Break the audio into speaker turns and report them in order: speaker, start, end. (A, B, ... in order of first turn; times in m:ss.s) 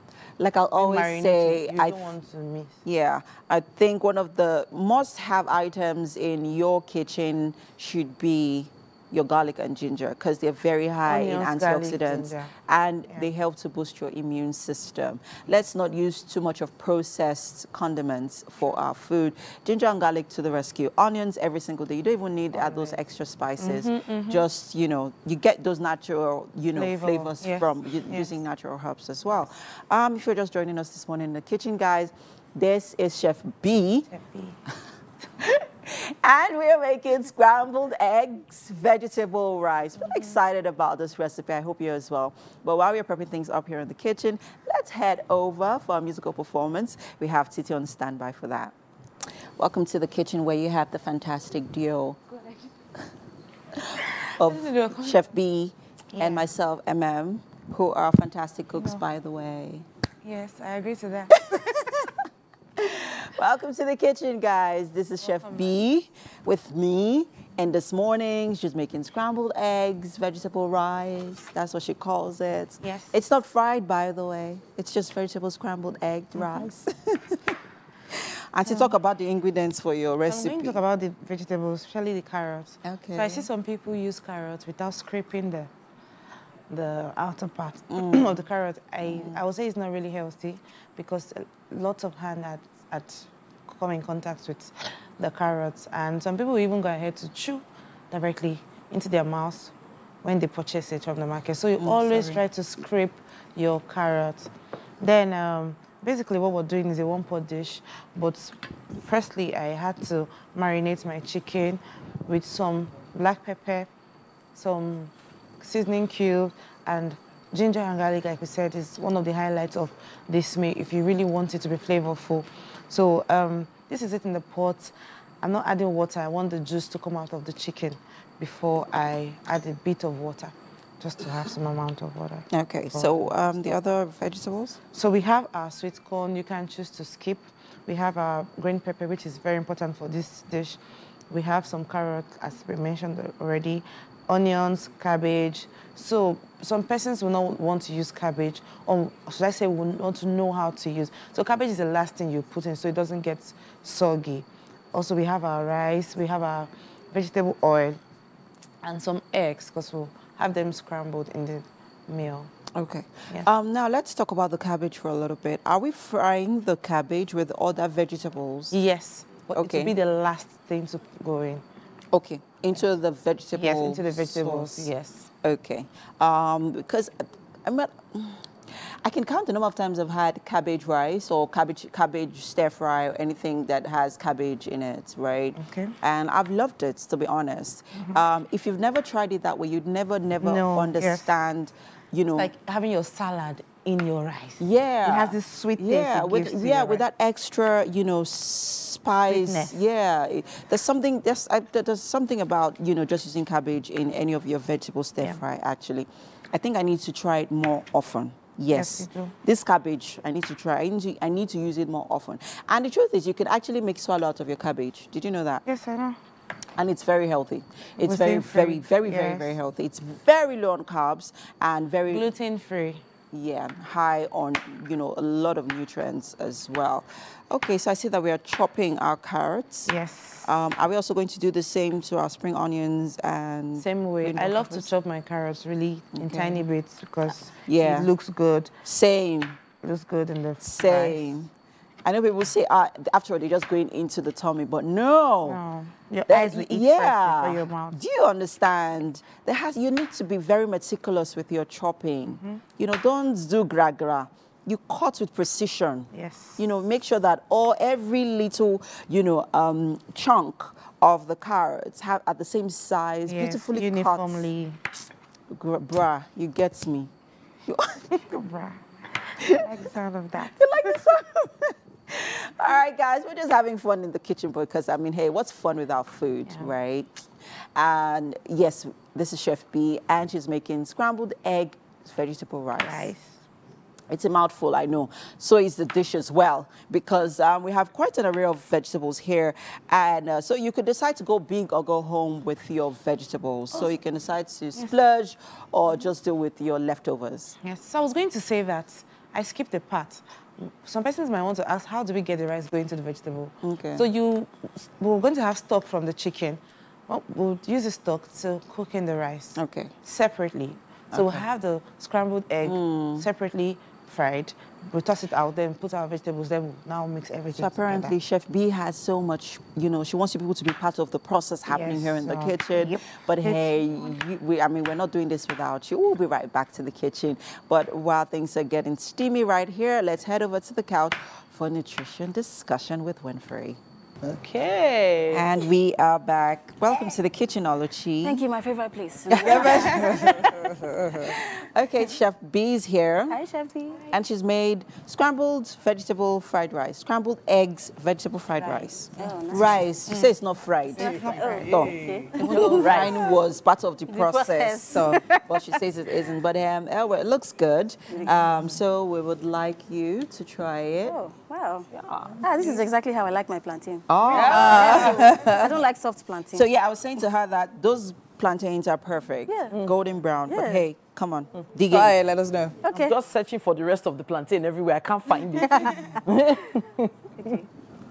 0:00.4-0:02.1 A
0:00.7-0:02.8 B
0:02.8-0:34.1 A
0:11.0-0:12.5 B
0:22.5-0:23.0 B
0:23.6-0:24.4 B
0:26.7-0:28.3 B
0:34.1-0:34.6 B
0:35.4-0:48.7 A
0:49.6-0:52.2 A
0:53.8-0:59.8 A
0:54.4-0:55.2 B
0:56.1-0:56.5 B
0:58.7-0:59.0 B
1:00.2-1:01.8 B
1:01.4-1:02.1 A
1:02.8-1:17.6 A
1:05.2-1:05.8 B
1:12.8-1:13.2 B
1:16.4-1:16.7 B
1:18.1-1:20.8 A
1:18.6-1:18.9 B
1:20.3-1:25.7 B
1:22.8-1:23.5 A
1:26.7-1:53.9 B
1:27.9-1:28.3 A
1:29.0-1:29.4 A
1:41.8-1:42.4 A
1:54.5-2:13.8 B
2:12.5-2:14.8 A
2:14.9-2:38.0 B
2:38.8-2:42.5 B
2:42.7-2:48.7 A
2:48.7-2:51.6 B
2:49.6-2:49.9 A
2:52.1-2:54.9 A
2:53.5-2:55.3 B
2:55.4-3:12.5 A
3:05.6-3:06.0 B
3:10.4-3:11.3 B
3:12.4-3:17.0 B
3:14.6-3:35.6 A
3:19.3-3:19.8 B
3:28.7-3:29.3 B
3:35.6-3:36.2 B
3:36.8-3:42.2 A
3:38.0-3:39.6 B
3:42.1-3:43.0 B
3:43.3-3:49.9 A
3:49.9-3:50.5 B
3:50.4-3:54.9 A
3:53.8-3:58.7 B
3:56.1-3:56.6 A
3:57.6-3:58.1 A
3:58.8-3:59.6 A
3:59.8-4:01.4 B
4:00.6-4:01.5 A
4:02.0-4:05.6 A
4:05.4-4:08.0 B
4:06.3-4:24.5 A
4:12.4-4:12.6 B
4:16.1-4:16.6 B
4:23.2-4:24.8 B
4:25.5-4:27.1 A
4:27.6-4:28.4 A
4:28.1-4:31.1 B
4:30.4-4:37.2 A
4:36.5-4:36.7 B
4:37.7-4:43.1 A
4:42.8-4:43.4 B
4:44.1-4:57.6 A
4:57.6-5:18.2 B
5:03.6-5:04.0 A
5:09.6-5:09.9 A
5:11.1-5:11.4 A
5:12.6-5:13.3 A
5:17.6-5:33.8 A
5:21.6-5:23.8 B
5:34.2-5:34.8 B
5:34.4-5:35.5 C
5:35.3-5:38.4 A
5:38.2-5:40.3 D
5:39.3-5:43.4 A
5:39.4-5:40.2 B
5:39.4-5:41.2 C
5:43.3-5:44.1 D
5:44.1-6:01.2 A
5:48.6-5:49.4 B
5:49.2-5:49.9 D
5:51.0-5:53.3 D
5:51.0-5:53.0 B
5:51.0-5:53.2 C
5:54.1-5:55.3 D
5:58.1-5:58.3 D
6:01.0-6:01.9 D
6:01.9-6:02.7 C
6:02.4-6:06.6 D
6:04.1-6:05.5 A
6:04.3-6:05.7 C
6:04.4-6:05.3 B
6:06.5-6:12.2 A
6:09.5-6:09.8 D
6:10.5-6:10.8 D
6:11.8-6:16.8 C
6:12.8-6:13.2 D
6:15.6-6:16.0 B
6:15.6-6:16.0 D
6:17.4-6:17.7 D